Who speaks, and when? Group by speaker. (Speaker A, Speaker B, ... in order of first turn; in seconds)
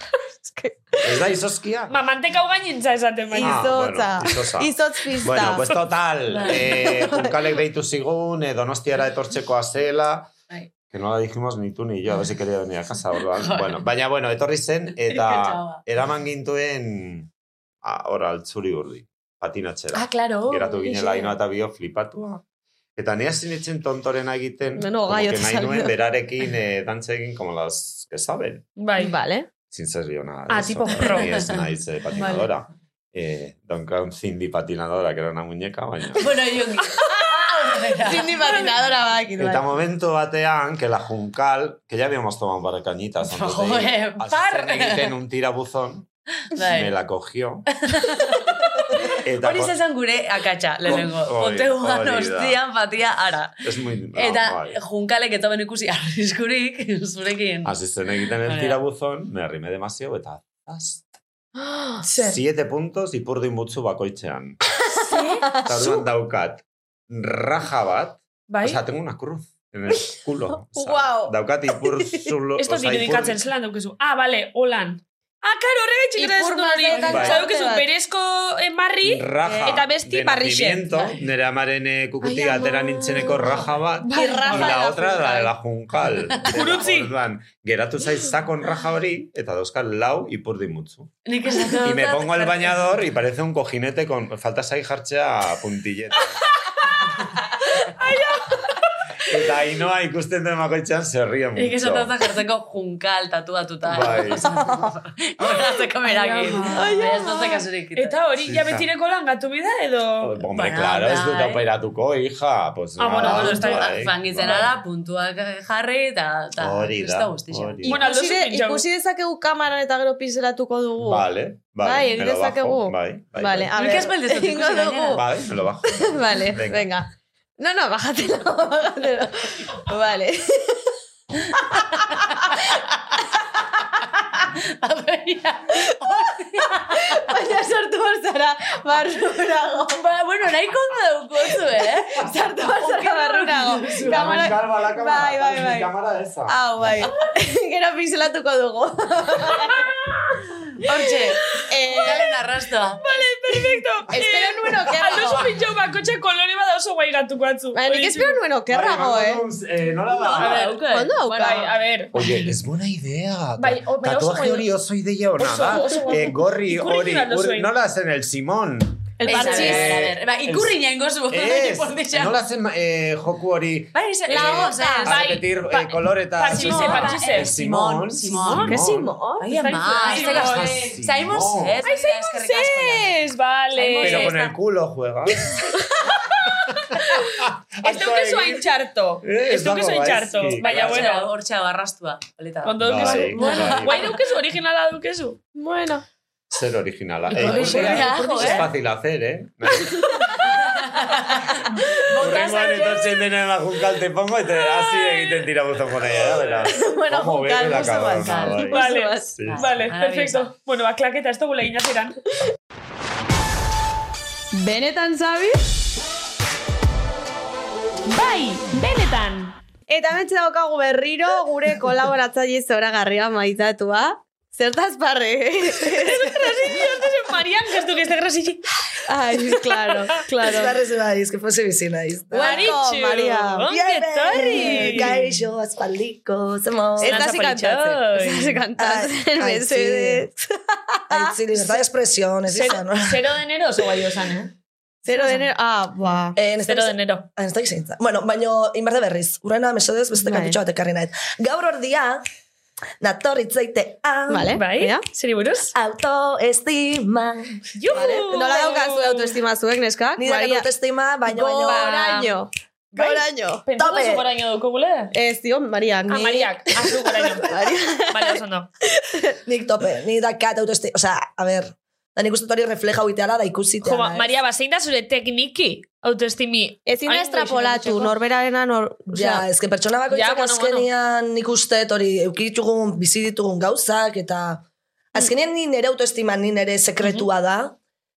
Speaker A: 0.4-0.8, 3.3-5.7, 6.7-7.3, 24.8-25.9, 29.0-29.5, 32.2-32.5, 38.0-39.8, 61.6-62.0, 65.2-66.0, 70.7-72.3, 76.2-77.9, 84.2-85.5, 106.7-107.4, 117.8-121.3, 121.8-125.2, 125.9-127.1, 127.6-130.8, 131.7-132.5, 136.7-140.0, 142.3-145.9, 146.5-149.8, 151.6-152.2, 153.7-155.5, 157.7-159.4, 160.9-161.7, 169.2-169.9, 174.3-175.1, 178.4-179.5, 182.5-183.9, 193.4-193.9, 195.6-196.1, 197.6-198.6, 206.7-209.3, 214.5-215.6, 219.9-226.8, 229.1-230.8, 232.3-233.7, 234.3-235.2, 237.0-241.4, 245.1-246.4, 250.2-250.6, 254.3-255.0, 257.9-260.7, 261.3-263.6, 265.1-266.4, 267.4-268.4, 269.0-269.3, 276.9-279.4
Speaker B: 1.0-2.0, 3.4-10.3, 10.9-17.3, 17.8-22.4, 23.0-28.6, 29.7-36.3, 39.4-46.1, 46.7-47.7, 49.2-49.8, 50.9-52.6, 53.6-54.8, 57.6-61.0, 62.2-64.6, 65.7-73.4, 77.0-77.4, 79.0-91.1, 91.8-96.4, 99.3-102.1, 103.8-104.5, 108.4-108.9, 110.2-114.8, 116.6-118.0, 121.0-124.0, 125.1-126.9, 144.0-147.1, 154.9-155.7, 158.7-160.7, 162.1-179.1, 180.1-181.8, 184.0-185.7, 186.5-188.7, 189.2-191.1, 192.8-194.1, 196.5-200.3, 202.1-208.8, 209.3-209.7
Speaker C: 1.9-3.6, 28.8-29.1, 30.5-31.3, 62.0-62.4, 65.0-65.5, 68.5-68.8, 72.6-81.0, 82.2-84.8, 86.4-87.1, 97.7-98.9, 106.1-107.3, 108.0-110.4, 113.0-113.9, 117.9-118.8, 153.0-158.4, 160.4-160.8, 161.3-162.1, 163.6-164.7, 165.4-167.7, 169.3-170.0, 175.1-177.5, 179.5-180.8, 181.8-184.5, 186.2-187.2, 187.8-191.3, 192.6-195.4, 197.5-198.6, 204.7-205.5, 208.6-212.2, 218.1-219.6, 225.9-228.7, 229.4-229.9, 232.4-235.3, 237.0-238.6, 242.5-244.5, 245.1-245.5, 246.7-247.3, 254.6-255.7, 257.7-259.3, 261.7-262.3, 263.6-265.1, 266.1-267.5, 268.1-268.7, 273.8-278.1, 280.1-280.9, 287.0-287.3
Speaker D: 6.3-6.9, 13.2-13.8, 15.1-15.8, 20.0-21.3, 31.0-31.7, 36.2-38.7, 43.2-45.1, 46.5-46.9, 47.8-53.6, 54.1-57.8, 58.5-58.8, 76.9-77.3, 91.2-92.9, 101.6-108.2, 110.5-111.6, 113.2-117.8, 123.8-125.3, 134.4-137.4, 138.9-144.5, 150.8-153.2, 160.1-161.7, 169.2-172.4, 173.9-175.3, 176.5-178.8, 179.4-183.2, 183.8-184.4, 190.6-194.2, 197.3-198.7, 200.3-203.1, 208.2-208.9, 209.4-210.5
Speaker E: 230.5-232.8, 233.7-237.2, 238.8-240.3, 241.1-243.3, 246.4-252.2, 253.0-254.6, 255.7-258.6, 260.2-262.0, 263.8-264.2, 266.1-267.2, 269.5-274.3, 279.1-287.8